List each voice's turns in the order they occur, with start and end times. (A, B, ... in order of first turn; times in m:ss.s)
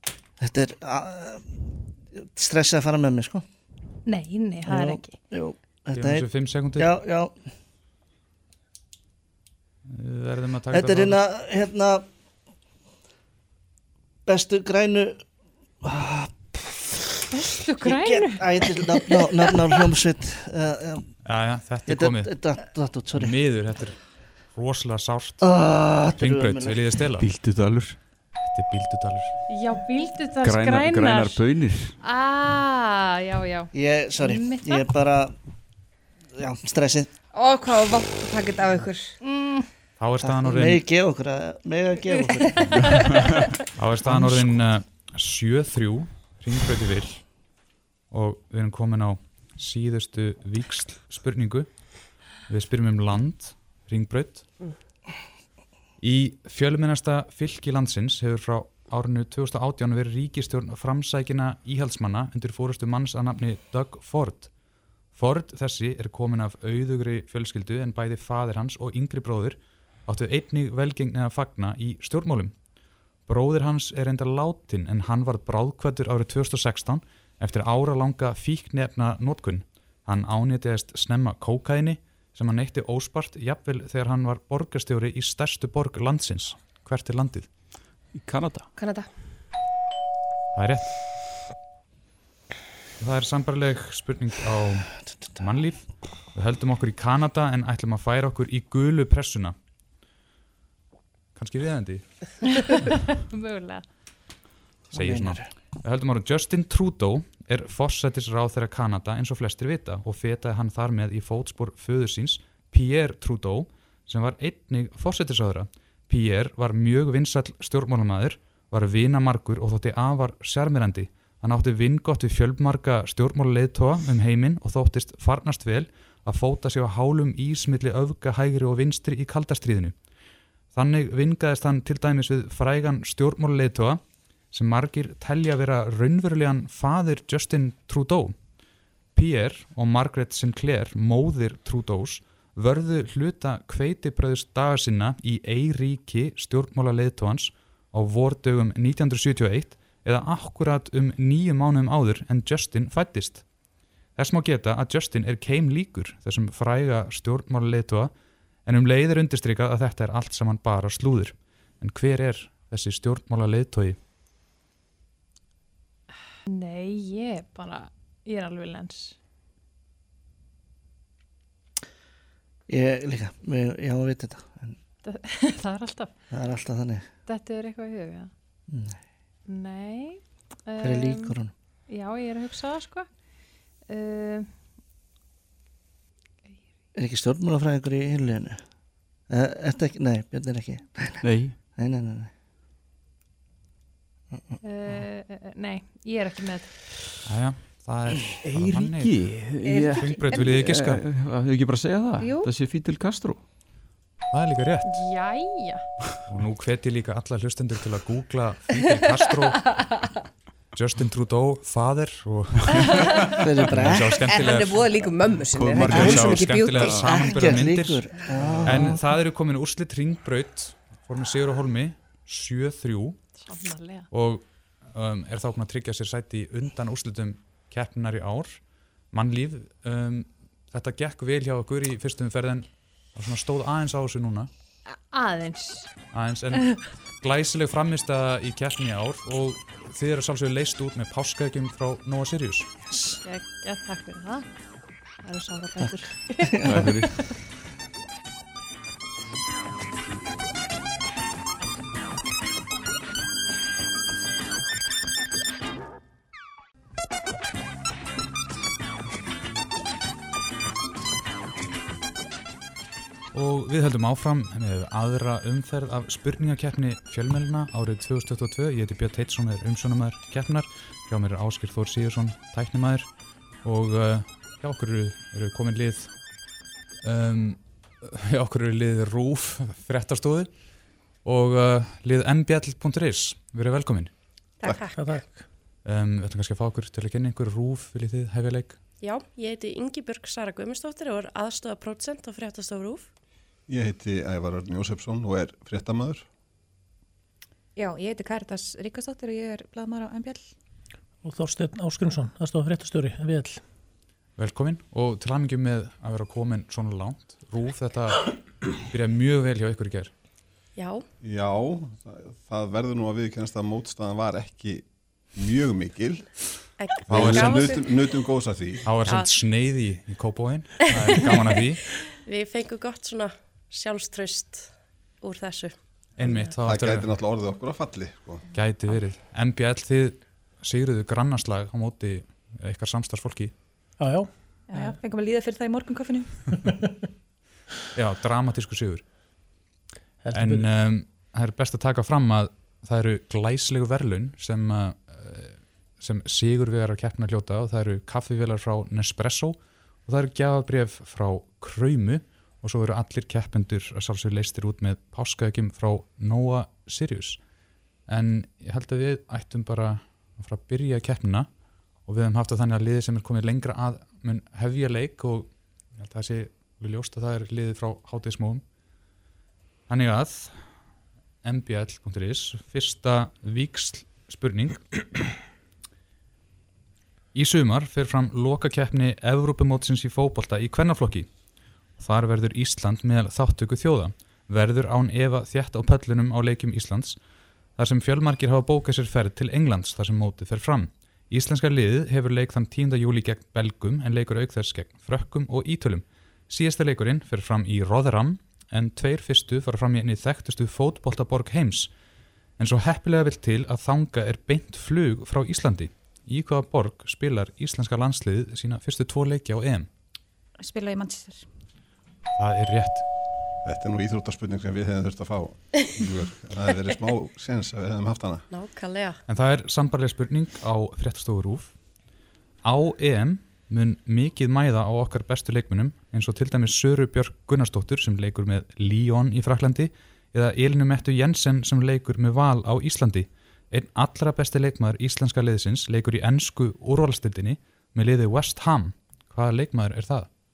0:00.4-0:03.4 A
0:04.1-0:05.2 B
0:04.6-0:07.5 A
0:06.0-0:07.0 C
0:09.9-0:11.2 C
0:10.7-0:12.1 A
0:14.3-0:15.3 A
0:15.8-0:17.2 A
0:17.6-0:19.5 B
0:17.8-0:21.2 A
0:21.2-0:22.3 C
0:21.9-0:23.4 A
0:23.1-0:25.4 C
0:25.4-0:27.0 A
0:26.2-0:27.3 C
0:27.2-0:28.0 D
0:28.5-0:29.3 C
0:29.5-0:31.4 B
0:30.4-0:32.0 D
0:32.0-0:34.9 B
0:33.7-0:35.4 A
0:36.4-0:37.1 A
0:37.3-0:39.2 E
0:39.2-0:39.7 B
0:40.0-0:40.8 C
0:40.2-0:42.5 A
0:42.1-0:42.9 B
0:43.8-0:47.3 C
0:44.1-0:44.6 A
0:48.1-0:54.5 C
0:56.0-1:04.5 C
1:05.1-1:12.6 C
1:13.3-1:27.5 C
1:28.1-1:28.7 D
1:28.8-1:29.1 E
1:30.6-1:30.9 C
1:33.0-1:39.6 C
1:35.1-1:35.4 A
1:41.4-1:42.3 C
1:42.6-1:43.9 B
1:44.9-1:45.5 A
1:44.9-2:10.0 C
2:10.7-2:18.4 C
2:19.1-2:33.4 C
2:34.2-2:38.1 C
2:38.6-2:44.0 C
2:46.5-2:49.2 B
2:52.7-2:54.8 A
2:55.0-2:56.1 B
2:56.3-2:57.1 A
2:57.3-2:58.3 B
2:58.7-2:59.0 A
2:59.5-3:01.4 B
3:00.8-3:01.5 A
3:01.9-3:03.3 B
3:03.8-3:04.5 B
3:06.9-3:08.7 A
3:09.3-3:12.3 A
3:11.2-3:11.6 D
3:14.6-3:16.8 B
3:17.3-3:19.4 C
3:18.5-3:23.4 D
3:19.6-3:20.4 E
3:20.0-3:21.0 C
3:22.2-3:22.5 F
3:24.3-3:25.0 C
3:24.8-3:25.9 B
3:26.3-3:29.9 C
3:30.7-3:33.1 C
3:33.4-3:34.2 A
3:33.7-3:34.9 C
3:34.1-3:37.3 E
3:35.5-3:37.0 D
3:35.8-3:43.2 C
3:35.9-3:39.0 A
3:38.4-3:38.9 D
3:43.4-3:44.1 B
3:44.1-3:48.6 C
3:49.1-3:54.5 C
3:54.9-3:55.9 B
3:56.1-4:02.7 C
4:02.9-4:03.2 A
4:03.2-4:04.5 B
4:05.2-4:07.0 B
4:06.5-4:07.0 A
4:06.6-4:07.2 D
4:23.3-4:33.1 C
4:33.6-4:36.2 C
4:37.0-4:40.5 C
4:41.2-4:44.1 C
4:44.6-4:45.0 G
4:44.9-4:45.5 H
4:45.8-4:48.8 C
4:49.0-4:53.1 G
4:53.7-4:56.2 I
4:57.8-5:00.5 F
5:01.2-5:03.6 H
5:04.4-5:10.1 C
5:10.8-5:11.0 G
5:11.2-5:19.0 I
5:16.8-5:18.0 G
5:17.1-5:17.7 C
5:18.8-5:21.8 C
5:19.0-5:19.3 G
5:22.2-5:25.8 G
5:26.2-5:27.1 C
5:26.2-5:28.4 I
5:28.5-5:33.5 C
5:34.0-5:34.9 H
5:34.7-5:36.4 F
5:38.0-5:39.0 C
5:40.2-5:40.7 H
5:40.3-5:57.4 C
5:58.1-6:01.5 C
6:02.1-6:08.6 C
6:09.9-6:10.8 C
6:11.4-6:14.9 C
6:17.3-6:21.3 C
6:22.0-6:27.2 C
6:27.8-6:41.9 C
6:42.6-6:49.9 C
6:50.6-6:51.5 F
6:52.4-6:53.0 C
6:53.6-6:58.5 I
6:58.5-6:59.2 G
6:59.3-7:01.8 C
7:02.6-7:20.3 C